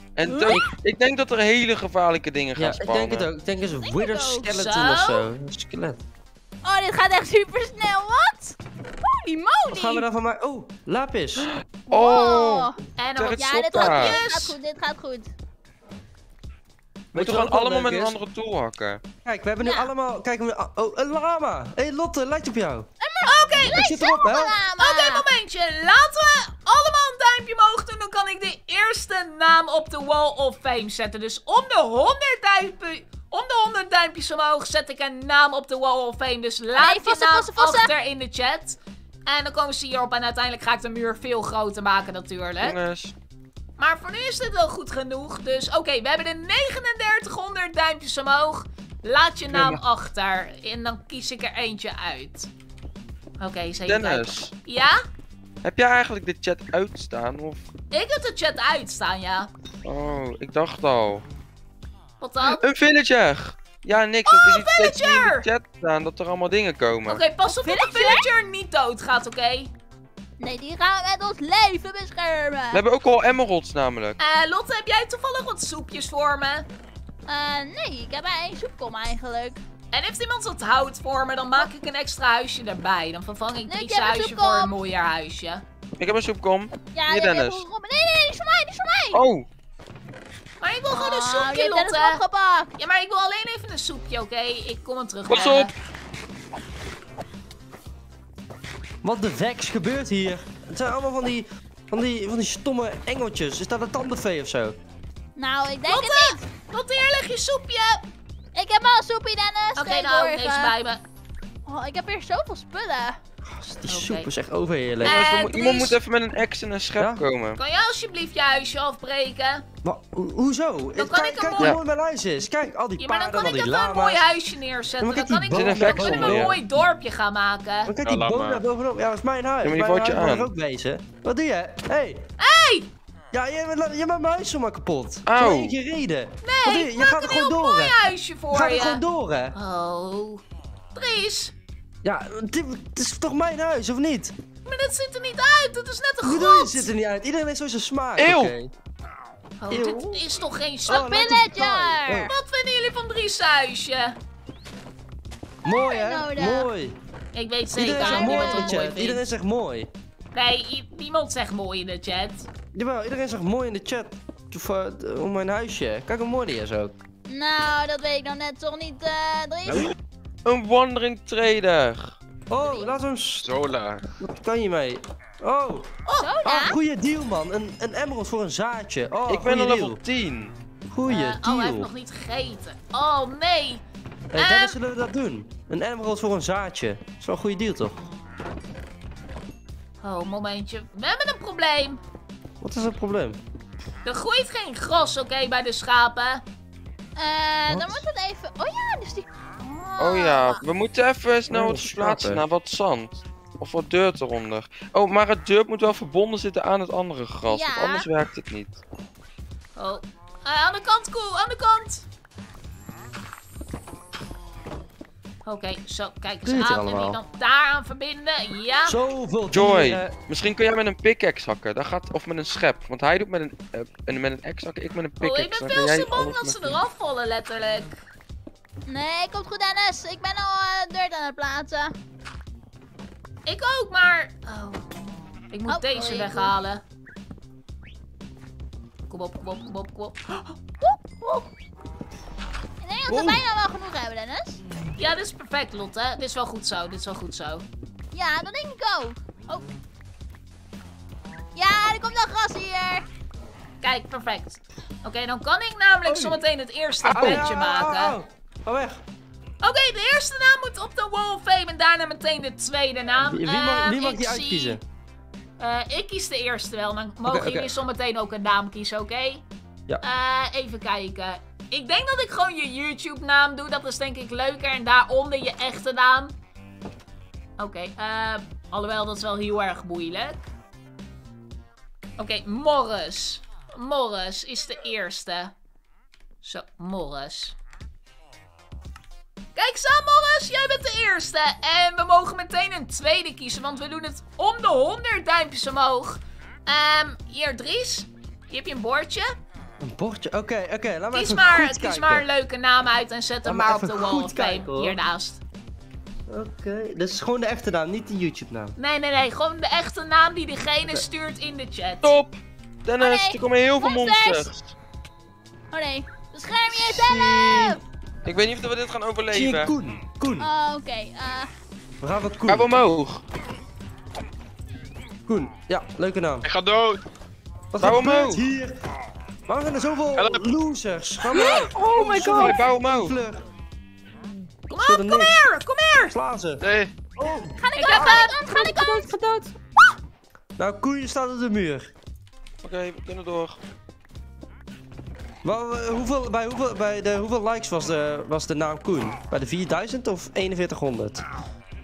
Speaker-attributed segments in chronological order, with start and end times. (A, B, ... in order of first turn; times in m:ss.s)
0:00.2-0:03.3 A
0:00.2-0:00.7 B
0:02.6-0:06.0 C
0:03.6-0:04.5 B
0:04.5-0:05.3 D
0:06.6-0:10.0 B
0:09.7-0:11.5 C
0:11.4-0:14.2 A
0:11.9-0:12.8 B
0:13.0-0:14.6 D
0:13.4-0:15.3 B
0:17.1-0:18.2 C
0:17.1-0:19.0 A
0:19.2-0:22.9 C
0:19.6-0:19.9 B
0:23.0-0:25.3 B
0:23.2-0:23.9 D
0:23.6-0:24.6 C
0:24.8-0:42.8 D
0:36.8-0:37.9 B
0:42.6-0:43.1 A
0:43.8-0:52.5 D
0:49.5-0:49.8 A
0:53.4-0:55.0 D
0:53.9-0:54.5 A
0:55.6-0:57.6 A
0:57.9-0:59.5 D
0:59.8-1:01.2 A
1:02.2-1:02.6 D
1:02.4-1:07.2 A
1:04.3-1:05.5 D
1:07.1-1:09.7 D
1:07.5-1:08.3 B
1:10.4-1:12.8 B
1:12.7-1:14.2 A
1:14.2-1:16.7 D
1:17.3-1:19.6 B
1:19.9-1:25.6 D
1:23.7-1:24.7 B
1:26.0-1:27.7 A
1:26.9-1:29.2 B
1:29.1-1:29.4 A
1:30.6-1:32.2 D
1:30.9-1:32.7 B
1:32.8-1:35.7 D
1:35.3-1:35.7 A
1:39.0-1:44.8 C
1:45.4-1:46.5 B
1:45.9-1:48.1 D
1:48.5-1:50.7 B
1:49.8-1:51.0 D
1:51.7-1:53.2 B
1:53.4-1:55.3 C
1:53.9-1:54.3 D
1:55.0-1:56.0 D
1:55.0-1:57.6 A
1:57.6-1:59.6 D
1:59.8-2:04.3 C
2:01.0-2:01.8 D
2:03.0-2:07.9 D
2:05.0-2:06.6 C
2:05.5-2:06.6 A
2:07.8-2:12.2 C
2:08.0-2:08.6 E
2:09.6-2:10.5 A
2:12.4-2:12.9 D
2:13.3-2:19.6 C
2:15.2-2:15.8 A
2:16.4-2:19.0 D
2:19.5-2:20.4 D
2:21.0-2:21.5 D
2:22.0-2:24.3 C
2:24.7-2:26.9 D
2:26.2-2:28.7 C
2:28.2-2:28.6 A
2:29.6-2:31.1 D
2:29.7-2:30.2 C
2:30.9-2:32.3 C
2:30.9-2:32.3 B
2:32.3-2:34.2 D
2:35.6-2:37.0 C
2:35.9-2:36.7 B
2:37.3-2:39.3 D
2:37.7-2:39.9 C
2:37.9-2:38.7 B
2:40.3-2:42.5 D
2:42.7-2:47.0 C
2:47.3-2:49.9 B
2:49.7-2:49.9 C
2:50.4-2:52.2 A
2:52.5-2:53.5 C
2:52.6-2:52.9 B
2:53.4-2:54.1 E
2:54.2-2:55.9 C
2:56.1-2:56.3 D
2:56.2-2:56.8 B
2:56.4-3:00.0 C
2:59.3-3:00.5 A
3:00.9-3:01.9 C
3:01.1-3:03.8 D
3:04.3-3:08.0 C
3:04.4-3:04.8 D
3:10.0-3:12.0 D
3:12.6-3:13.4 C
3:14.0-3:16.4 D
3:17.2-3:20.6 B
3:17.7-3:18.0 C
3:20.0-3:28.8 A
3:21.5-3:22.5 C
3:27.5-3:28.1 B
3:29.8-3:32.0 D
3:35.4-3:39.0 D
3:36.4-3:37.2 C
3:38.9-3:40.2 C
3:39.5-3:46.8 A
3:45.2-3:48.0 D
3:48.9-3:51.9 B
3:53.5-3:54.8 D
3:55.5-3:56.8 D
3:55.7-3:56.6 B
3:59.1-4:01.5 D
4:02.8-4:04.6 B
4:03.1-4:03.4 C
4:05.0-4:07.6 D
4:08.1-4:09.7 B
4:11.6-4:13.1 B
4:13.8-4:18.2 D
4:16.1-4:16.4 C
4:17.0-4:19.0 C
4:19.6-4:24.8 D
4:23.2-4:24.8 C
4:25.6-4:29.4 D
4:27.3-4:27.7 C
4:30.0-4:36.3 D
4:37.6-4:40.4 D
4:42.2-4:45.5 D
4:46.4-4:47.6 D
4:49.6-4:59.4 D
4:59.8-5:02.3 C
5:01.1-5:05.4 D
5:03.4-5:05.0 C
5:06.3-5:08.7 C
5:08.8-5:12.2 D
5:12.0-5:14.7 A
5:13.0-5:14.5 B
5:15.7-5:17.8 B
5:16.7-5:17.8 C
5:18.2-5:19.7 A
5:19.3-5:20.5 C
5:20.4-5:21.5 B
5:22.0-5:22.8 C
5:22.5-5:23.2 A
5:25.3-5:26.5 C
5:26.4-5:27.0 E
5:27.7-5:28.8 C
5:27.8-5:28.4 A
5:29.5-5:33.4 C
5:30.2-5:30.5 E
5:31.3-5:32.5 F
5:32.3-5:33.2 A
5:34.7-5:36.2 D
5:34.8-5:35.5 C
5:36.1-5:36.6 C
5:36.6-5:36.9 E
5:37.2-5:38.3 C
5:37.6-5:39.1 B
5:37.8-5:38.6 D
5:38.3-5:39.5 F
5:40.6-5:41.9 C
5:42.6-5:43.6 A
5:45.4-5:51.2 C